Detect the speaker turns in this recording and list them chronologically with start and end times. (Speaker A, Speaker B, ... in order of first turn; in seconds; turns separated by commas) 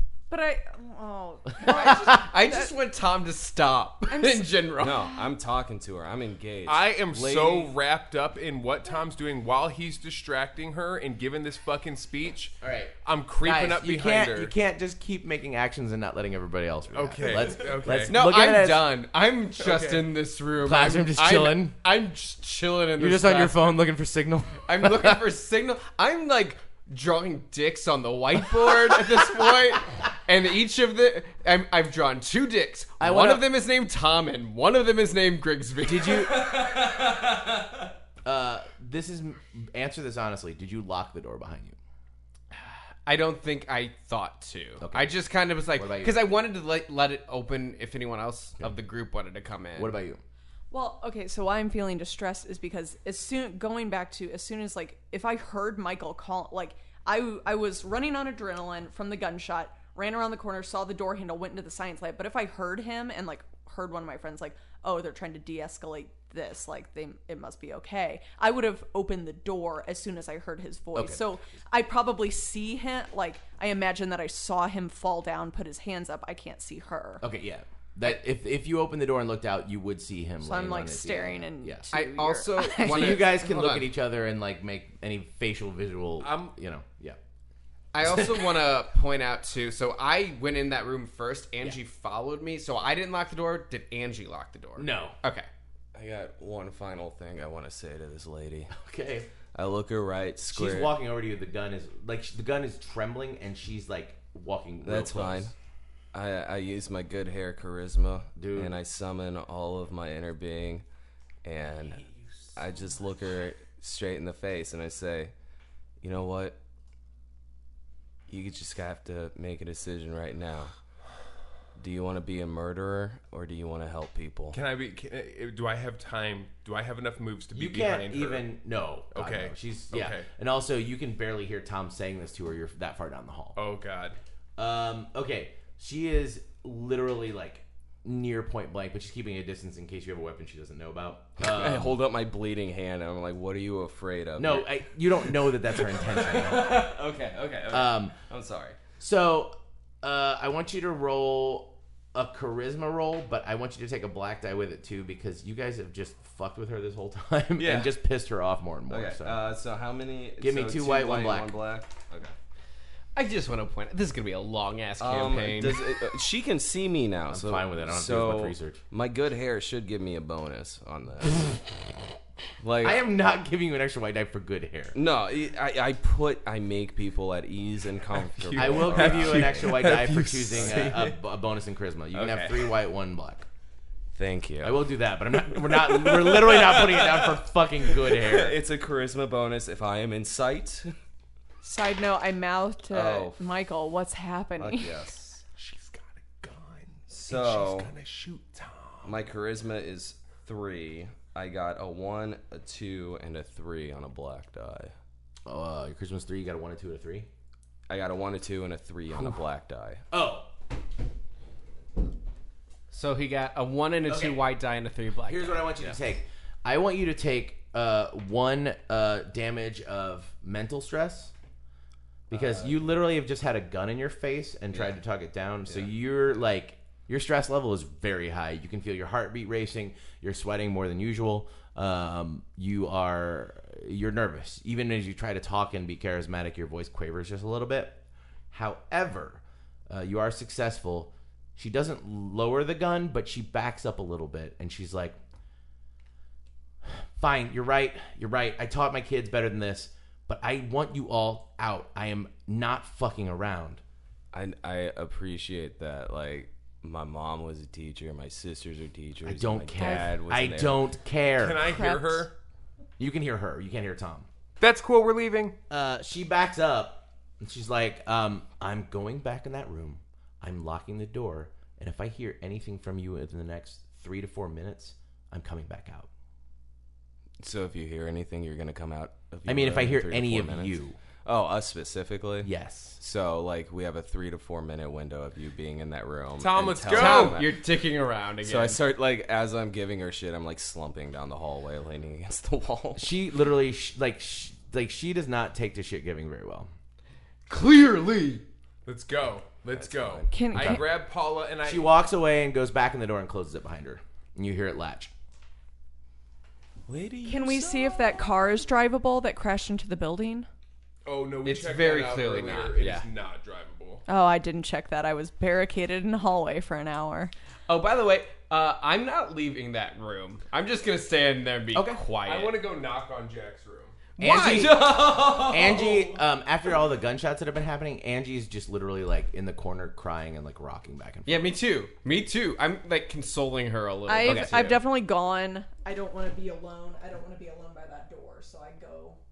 Speaker A: 0.3-2.7, Speaker B: 1.6-5.0, Speaker C: 1.7-2.2, Speaker A: 4.1-4.5, Speaker D: 4.8-7.5, Speaker E: 6.7-14.5, Speaker C: 7.2-7.7, Speaker C: 12.6-18.9, Speaker E: 16.9-18.2, Speaker B: 18.1-23.6, Speaker E: 19.6-20.1, Speaker C: 20.6-21.8, Speaker C: 23.0-25.2, Speaker B: 24.7-36.3, Speaker C: 33.0-33.4, Speaker C: 35.8-36.5, Speaker D: 36.2-37.9, Speaker C: 38.2-41.8, Speaker B: 43.1-49.9, Speaker C: 44.8-45.1, Speaker C: 45.8-46.2, Speaker C: 49.8-50.2, Speaker A: 50.7-77.2, Speaker C: 71.0-71.2, Speaker C: 77.2-81.9, Speaker A: 80.4-83.3, Speaker B: 81.9-83.9, Speaker C: 82.8-87.2, Speaker E: 86.2-86.5, Speaker B: 87.9-95.5, Speaker C: 88.0-88.4, Speaker C: 94.8-95.2, Speaker D: 95.9-98.7, Speaker C: 98.7-99.3, Speaker D: 99.5-101.0, Speaker C: 100.5-105.5, Speaker D: 104.8-105.5, Speaker D: 106.1-110.8, Speaker C: 108.4-108.7, Speaker D: 111.5-112.0, Speaker D: 112.5-115.3, Speaker D: 116.0-116.6, Speaker D: 118.3-120.7, Speaker D: 121.8-124.6, Speaker E: 124.5-128.4, Speaker C: 127.5-133.6, Speaker E: 129.1-130.3, Speaker E: 133.6-134.2, Speaker C: 134.6-142.0, Speaker D: 141.4-148.8, Speaker C: 144.4-146.9, Speaker C: 147.7-148.2, Speaker C: 149.0-159.4, Speaker D: 157.6-157.9, Speaker D: 158.9-162.3, Speaker C: 160.4-161.5, Speaker B: 163.2-165.8, Speaker D: 165.0-171.6, Speaker C: 167.3-168.8, Speaker D: 172.6-173.0, Speaker C: 172.8-175.0, Speaker D: 174.9-179.9, Speaker E: 178.5-180.9, Speaker C: 178.6-183.5, Speaker D: 180.6-181.1, Speaker D: 182.1-182.7, Speaker D: 184.2-184.8, Speaker C: 184.6-188.6, Speaker D: 185.5-190.9, Speaker A: 191.6-195.0, Speaker D: 192.9-193.4, Speaker D: 194.6-195.4, Speaker E: 195.5-199.2, Speaker D: 197.1-197.9, Speaker D: 199.0-204.9, Speaker C: 205.5-207.3, Speaker D: 207.9-210.0, Speaker C: 210.1-210.5, Speaker B: 212.9-215.9, Speaker C: 214.1-214.4, Speaker C: 215.3-221.3, Speaker C: 222.3-238.0, Speaker D: 222.3-222.7, Speaker C: 238.5-245.2, Speaker C: 246.8-253.8, Speaker D: 254.3-260.9, Speaker C: 259.2-261.8, Speaker E: 261.4-262.3, Speaker A: 261.7-262.3, Speaker C: 263.0-264.3, Speaker E: 264.6-265.6, Speaker C: 265.7-276.1, Speaker D: 277.4-287.6, Speaker C: 279.5-281.0, Speaker C: 282.4-283.0, Speaker E: 286.4-287.4, Speaker B: 286.9-288.8, Speaker D: 288.4-293.1, Speaker C: 293.0-296.7, Speaker B: 297.5-298.4, Speaker E: 298.9-301.9, Speaker D: 299.7-300.8, Speaker A: 300.3-300.9, Speaker C: 301.6-305.1, Speaker D: 306.9-308.0, Speaker A: 307.2-310.5, Speaker E: 311.1-314.0, Speaker B: 311.4-313.1, Speaker A: 314.1-317.3, Speaker B: 317.7-322.5, Speaker C: 321.7-322.0, Speaker E: 322.2-324.0, Speaker B: 324.2-325.5, Speaker C: 324.2-331.4, Speaker D: 324.5-326.1, Speaker B: 331.3-334.8, Speaker A: 334.1-339.2, Speaker D: 334.2-334.6